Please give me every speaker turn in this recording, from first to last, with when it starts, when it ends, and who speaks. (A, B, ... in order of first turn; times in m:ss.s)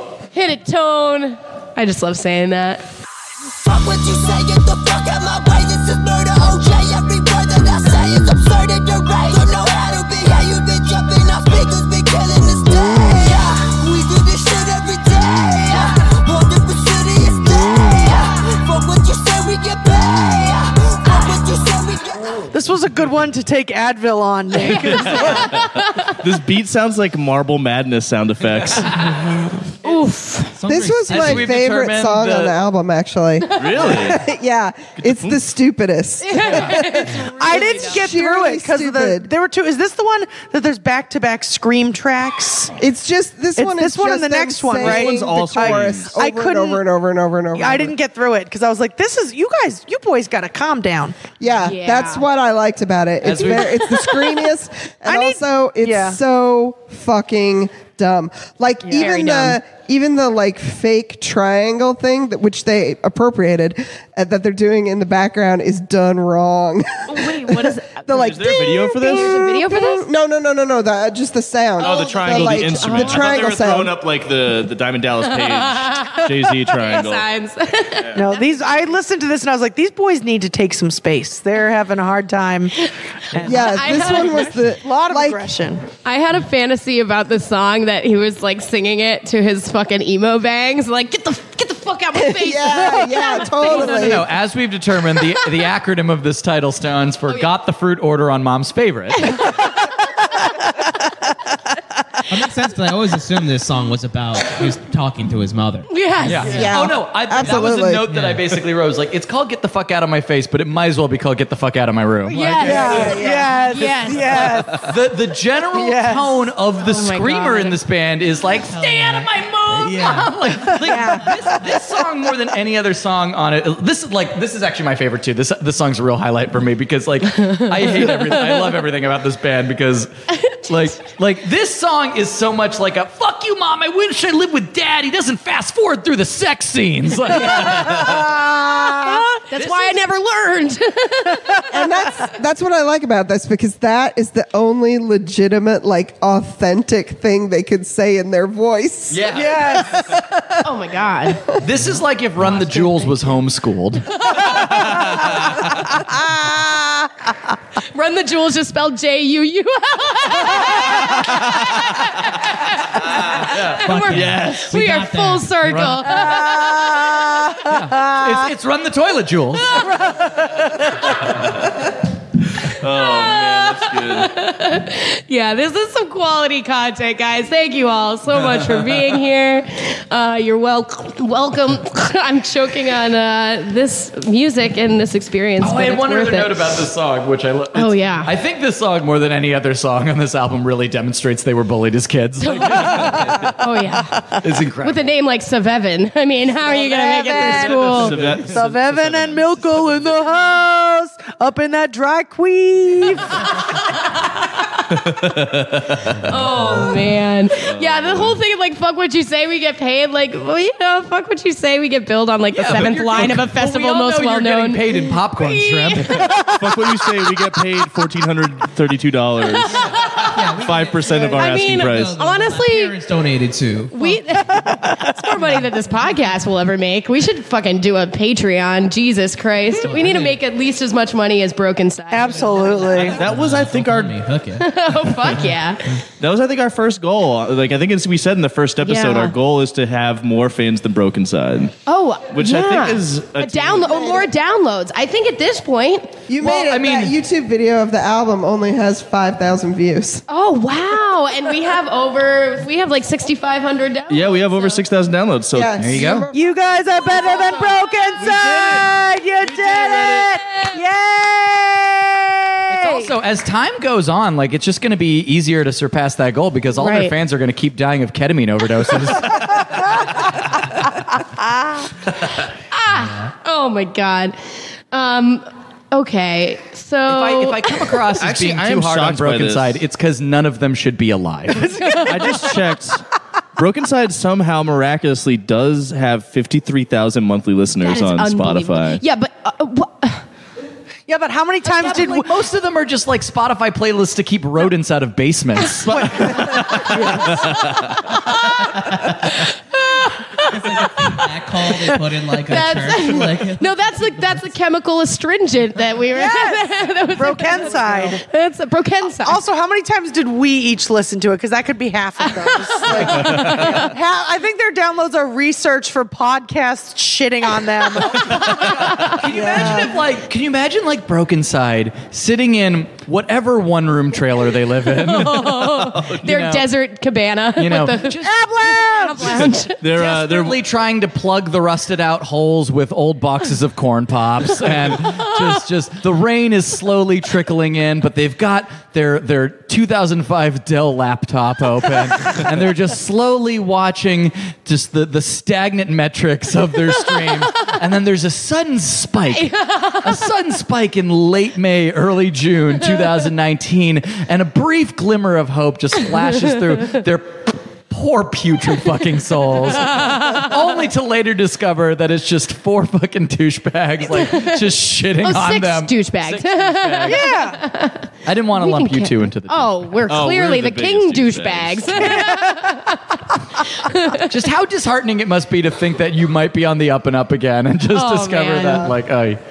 0:00.3-0:02.8 A
0:03.6-0:22.5 B
0:22.5-0:25.4 C
0:24.5-0:26.2 A
0:24.7-0:29.6 D
0:29.8-0:30.6 A
0:30.6-0:31.6 E
0:30.6-0:39.3 F
0:31.1-0:32.6 G
0:33.5-0:34.2 D
0:35.0-0:35.4 D
0:36.2-0:38.0 A
0:37.3-0:42.7 C
0:42.8-0:48.0 F
0:43.6-0:46.8 C
0:44.8-0:46.1 D
0:47.5-0:51.2 C
0:51.4-1:13.9 F
0:51.6-0:52.2 A
0:53.2-0:54.1 G
0:55.0-0:56.2 C
0:58.8-0:59.6 C
1:07.1-1:10.1 A
1:08.1-1:09.4 D
1:11.8-1:17.3 D
1:11.8-1:13.5 A
1:15.3-1:18.5 A
1:18.1-1:22.7 C
1:22.8-1:24.6 A
1:23.3-1:25.8 C
1:23.4-1:25.4 F
1:26.0-1:34.2 A
1:32.1-1:34.3 F
1:33.6-1:39.5 G
1:39.3-1:39.7 A
1:42.3-1:46.5 E
1:45.9-1:46.8 A
1:46.2-1:53.2 G
1:46.5-1:48.0 F
1:47.4-1:48.6 E
1:52.3-1:54.4 A
1:52.3-1:52.7 E
1:52.6-1:54.5 F
1:52.6-1:54.9 C
1:54.8-2:18.2 G
1:55.7-1:56.5 C
1:56.8-1:57.8 A
1:58.7-2:01.6 E
2:00.8-2:01.3 C
2:07.4-2:08.6 A
2:17.3-2:18.5 F
2:17.5-2:19.3 C
2:18.9-2:21.7 A
2:19.5-2:20.0 G
2:21.7-2:30.6 F
2:29.1-2:29.6 G
2:29.3-2:30.2 C
2:30.6-2:31.4 A
2:31.3-2:31.7 F
2:31.6-2:34.1 G
2:32.6-2:32.9 A
2:34.2-2:34.7 A
2:37.9-2:46.7 A
2:40.9-2:41.8 D
2:43.4-2:44.7 D
2:43.7-2:46.0 E
2:45.7-2:46.1 D
2:46.1-2:48.4 C
2:47.7-2:49.9 G
2:49.7-2:50.8 C
2:51.3-2:51.8 D
2:52.6-2:54.3 D
2:52.9-3:06.8 A
3:05.6-3:15.1 G
3:07.7-3:08.3 A
3:12.4-3:18.2 A
3:12.7-3:13.2 D
3:13.1-3:13.5 E
3:16.6-3:23.4 C
3:17.3-3:17.7 F
3:17.5-3:19.5 D
3:24.9-3:26.8 D
3:26.2-3:36.5 A
3:27.5-3:28.4 D
3:32.6-3:36.3 G
3:36.2-3:39.9 D
3:39.5-3:40.4 A
3:39.8-3:45.6 E
3:40.5-3:42.2 D
3:41.2-3:43.0 A
3:43.9-3:52.9 A
3:49.8-3:50.4 E
3:52.1-3:53.2 C
3:52.9-3:54.3 D
3:53.2-3:56.0 E
3:54.6-3:56.0 A
3:56.2-4:01.7 D
3:58.8-3:59.3 A
4:01.8-4:06.2 A
4:02.3-4:04.1 D
4:03.8-4:04.3 F
4:06.3-4:10.2 F
4:06.4-4:07.1 G
4:10.3-4:14.8 A
4:14.1-4:16.0 D
4:15.5-4:17.2 F
4:15.8-4:16.3 G
4:16.3-4:23.1 C
4:17.1-4:17.7 A
4:18.2-4:20.4 D
4:22.7-4:30.3 G
4:26.8-4:27.1 A
4:32.7-4:34.4 A
4:32.9-4:33.3 E
4:34.9-4:37.9 A
4:37.1-4:41.8 G
4:38.1-4:39.8 D
4:41.5-4:42.6 C
4:41.9-4:43.0 D
4:43.6-4:49.0 D
4:47.8-4:50.2 A
4:51.1-4:52.4 C
4:51.6-4:57.2 G
4:55.7-4:58.1 D
4:56.9-4:57.3 C
4:58.6-4:59.3 E
4:59.3-5:09.4 A
5:00.4-5:04.5 E
5:06.1-5:08.2 C
5:07.7-5:08.2 F
5:09.2-5:18.3 C
5:12.2-5:13.9 A
5:12.8-5:13.7 F
5:13.0-5:13.8 D
5:18.1-5:18.9 D
5:18.2-5:19.2 A
5:18.2-5:26.7 G
5:19.2-5:20.0 F
5:24.9-5:29.8 A
5:27.6-6:07.2 G
5:28.2-5:29.5 C
5:29.8-5:30.6 D
5:47.2-5:47.7 A
5:49.3-5:50.3 A
5:59.9-6:00.5 A
6:04.1-6:14.3 A
6:07.0-6:07.6 C
6:08.2-6:10.1 G
6:10.1-6:12.4 D
6:12.0-6:12.7 C
6:14.2-6:19.4 G
6:17.9-6:18.9 A
6:18.6-6:19.0 F